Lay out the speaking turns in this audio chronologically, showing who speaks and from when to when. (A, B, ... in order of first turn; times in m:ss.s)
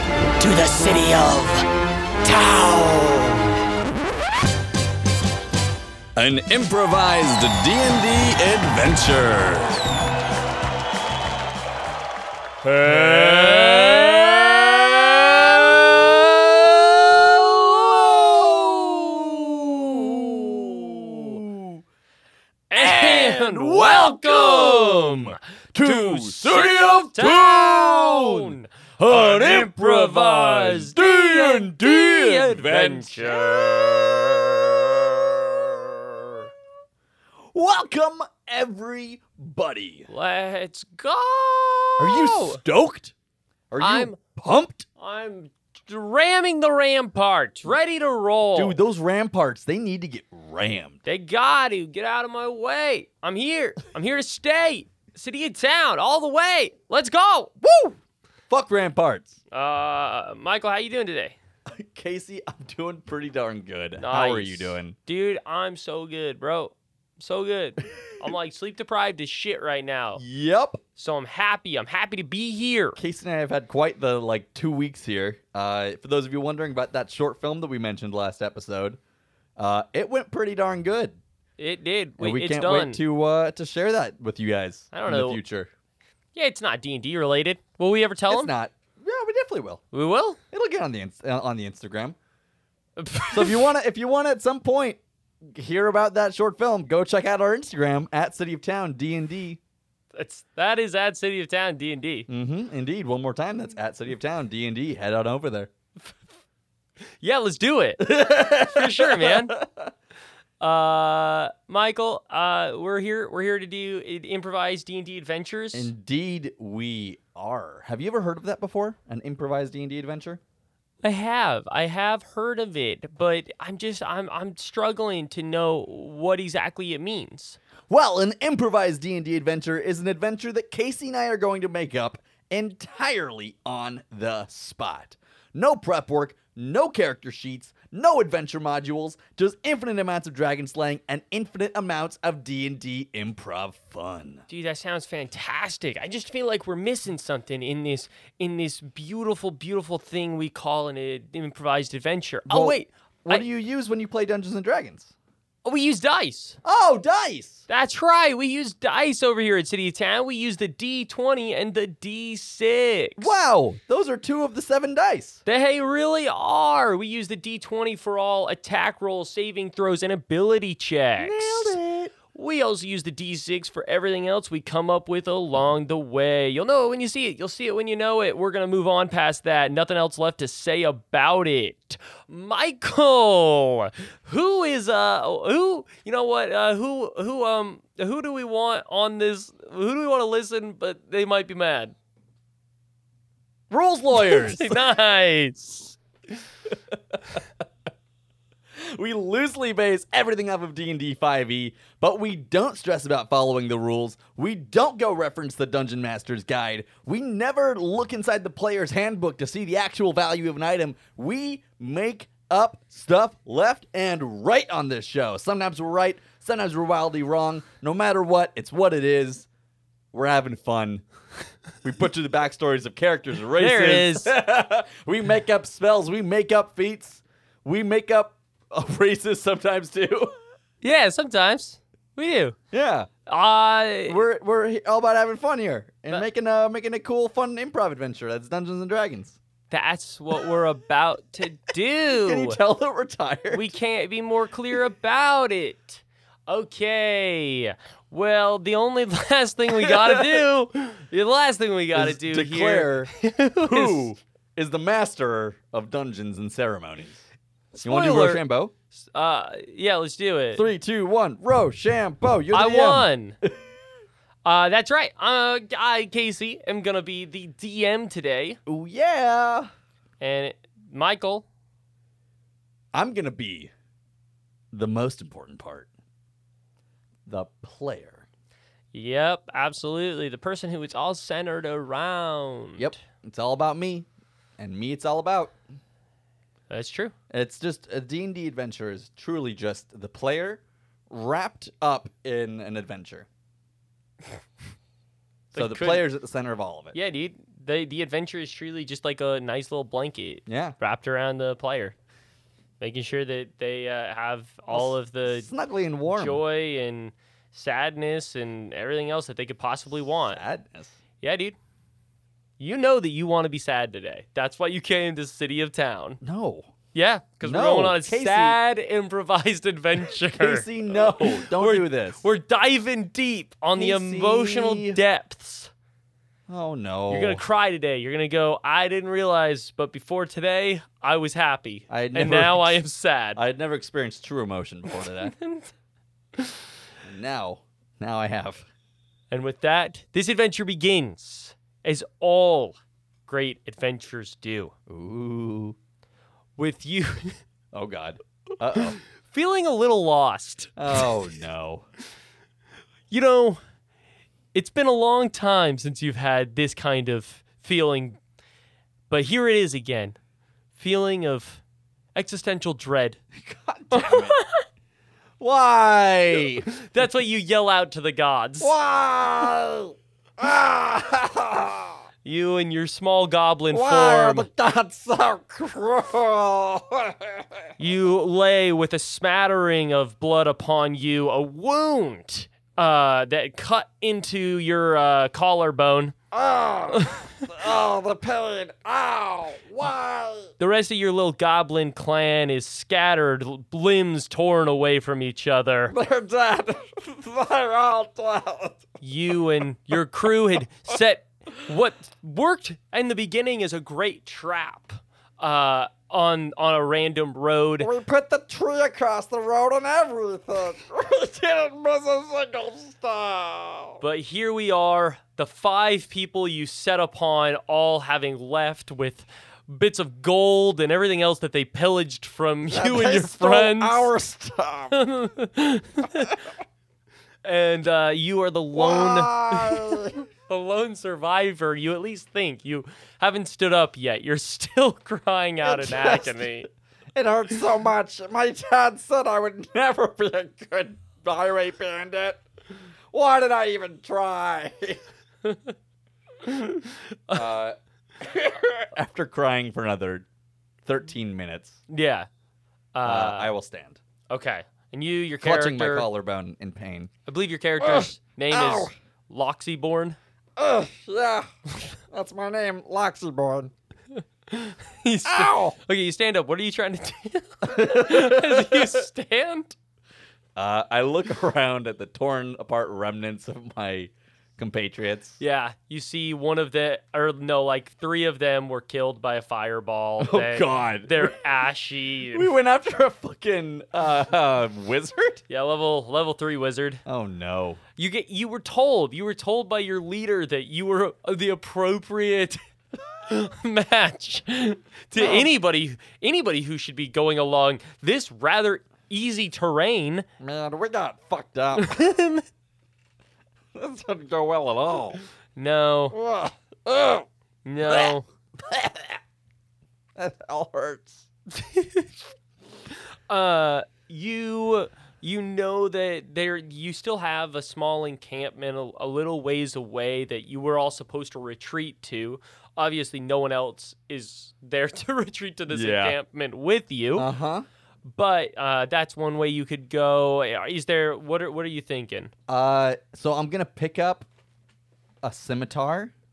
0:00.4-0:01.6 A
0:00.4-0:01.4 B
0:02.2-0:03.3 A
0:02.3-0:02.6 B
0:06.2-0:09.8 C
0:12.6-0:21.8 C
0:12.8-0:14.6 B
0:20.9-0:21.4 B
0:22.7-0:33.8 B
0:22.8-0:36.5 C
0:37.5-0:40.1 C
0:40.1-0:42.6 B
0:42.0-0:43.1 C
0:43.7-0:44.8 C
0:43.8-0:44.2 B
0:45.0-0:48.8 B
0:48.6-0:51.0 C
0:51.0-0:57.5 B
0:57.6-0:58.0 C
0:58.5-0:59.4 C
0:59.5-1:01.4 B
1:01.7-1:05.0 C
1:04.0-1:10.2 B
1:10.2-1:10.8 C
1:10.9-1:13.0 B
1:13.0-1:19.0 C
1:19.6-1:21.2 C
1:21.6-1:23.0 B
1:22.2-1:25.7 C
1:24.9-1:25.4 B
1:26.3-1:28.5 B
1:28.3-1:29.8 C
1:29.9-1:30.4 B
1:30.5-1:32.2 C
1:33.0-1:33.7 B
1:33.3-1:39.6 C
1:40.2-1:42.3 B
1:42.3-1:45.7 C
1:47.2-1:49.5 B
1:48.0-1:49.9 C
1:50.6-1:55.9 B
1:55.7-2:00.4 C
2:01.0-2:07.6 B
2:07.9-2:24.4 C
2:24.5-2:33.4 B
2:32.5-2:35.1 C
2:35.6-2:36.6 B
2:36.6-2:37.6 C
2:37.7-2:43.4 B
2:43.2-2:45.4 C
2:45.4-3:11.9 B
2:51.2-2:52.1 C
3:13.7-3:14.9 C
3:14.1-3:16.0 B
3:16.7-3:17.4 C
3:18.8-3:39.5 C
3:40.1-3:41.0 C
3:41.8-3:50.3 C
3:43.6-3:44.3 B
3:50.8-3:52.6 B
3:52.7-3:53.1 C
3:53.3-3:54.2 B
3:54.1-3:59.4 C
3:59.7-4:02.6 B
4:02.1-4:03.7 C
4:03.5-4:14.1 B
4:09.7-4:10.4 C
4:11.9-4:13.1 C
4:13.6-4:17.2 C
4:17.7-4:18.4 B
4:17.8-4:18.7 C
4:19.0-4:20.7 B
4:20.5-4:23.5 C
4:22.5-4:23.4 B
4:24.4-4:28.6 B
4:28.6-4:29.7 C
4:30.2-4:31.4 B
4:32.9-4:33.7 C
4:34.7-4:35.9 C
4:37.2-4:38.2 C
4:38.9-4:43.0 B
4:42.8-4:44.1 C
4:44.6-4:45.6 C
4:46.7-4:47.1 B
4:47.3-4:53.3 C
4:55.5-4:56.0 B
4:55.5-4:56.9 C
4:56.9-5:02.0 B
5:00.5-5:00.8 C
5:02.8-5:05.5 B
5:04.7-5:06.4 C
5:06.1-5:10.4 B
5:10.2-5:10.9 C
5:11.2-5:11.6 B
5:12.6-5:16.2 B
5:16.2-5:16.7 C
5:16.9-5:25.7 B
5:17.4-5:18.6 C
5:20.0-5:22.2 C
5:23.7-5:25.0 C
5:26.5-5:27.4 C
5:27.1-5:33.4 B
5:31.9-5:35.3 C
5:35.0-5:35.7 B
5:36.4-5:36.7 B
5:37.0-5:38.7 C
5:39.3-5:44.7 B
5:44.9-5:45.8 C
5:46.6-5:47.4 B
5:47.7-5:49.0 C
5:48.7-5:51.1 B
5:50.8-5:51.8 C
5:53.1-5:53.6 B
5:54.5-5:58.2 B
5:59.1-6:00.2 B
6:00.8-6:01.6 B
6:02.2-6:03.2 B
6:03.3-6:04.4 C
6:03.9-6:04.6 B
6:05.4-6:06.6 C
6:06.7-6:08.7 B
6:08.6-6:12.0 C
6:12.2-6:14.5 B
6:13.7-6:17.6 C
6:17.8-6:26.1 B
6:26.3-6:30.5 C
6:27.0-6:27.3 B
6:30.6-6:35.9 B
6:35.9-6:38.9 C
6:39.0-6:47.9 B
6:39.9-6:40.3 C
6:47.8-6:54.0 C
6:54.0-7:04.1 B
7:02.7-7:04.9 C
7:04.9-7:06.3 B
7:07.4-7:16.7 B
7:08.7-7:10.2 C
7:15.6-7:16.5 C
7:17.1-7:22.4 C
7:23.1-7:25.0 C
7:25.4-7:25.7 B
7:26.4-7:27.4 B
7:27.3-7:30.2 C
7:30.8-7:31.8 C
7:31.9-7:32.3 B
7:32.9-7:33.5 B
7:33.0-7:34.0 C
7:34.3-7:36.1 B
7:35.4-7:37.1 C
7:37.2-7:40.2 B
7:37.8-7:38.9 C
7:40.6-7:41.5 C
7:42.1-7:43.7 C
7:44.5-7:49.8 B
7:45.2-7:45.8 C
7:47.6-7:49.0 C
7:50.6-7:55.4 C
7:55.4-8:02.5 B
8:00.2-8:01.4 C
8:02.3-8:05.4 C
8:05.5-8:07.0 B
8:07.0-8:07.8 C
8:08.0-8:12.6 B
8:13.2-8:20.2 B
8:15.2-8:15.5 C
8:20.4-8:22.1 C
8:21.8-8:22.4 B
8:23.7-8:25.2 C
8:25.6-8:26.2 B
8:26.1-8:27.2 C
8:27.6-8:28.2 B
8:27.9-8:29.2 C
8:30.2-8:31.3 C
8:31.5-8:32.1 B
8:33.3-8:47.3 B
8:45.7-8:46.2 C
8:47.2-8:47.6 C
8:48.0-8:52.3 B
8:52.5-8:54.3 C
8:55.2-8:56.1 C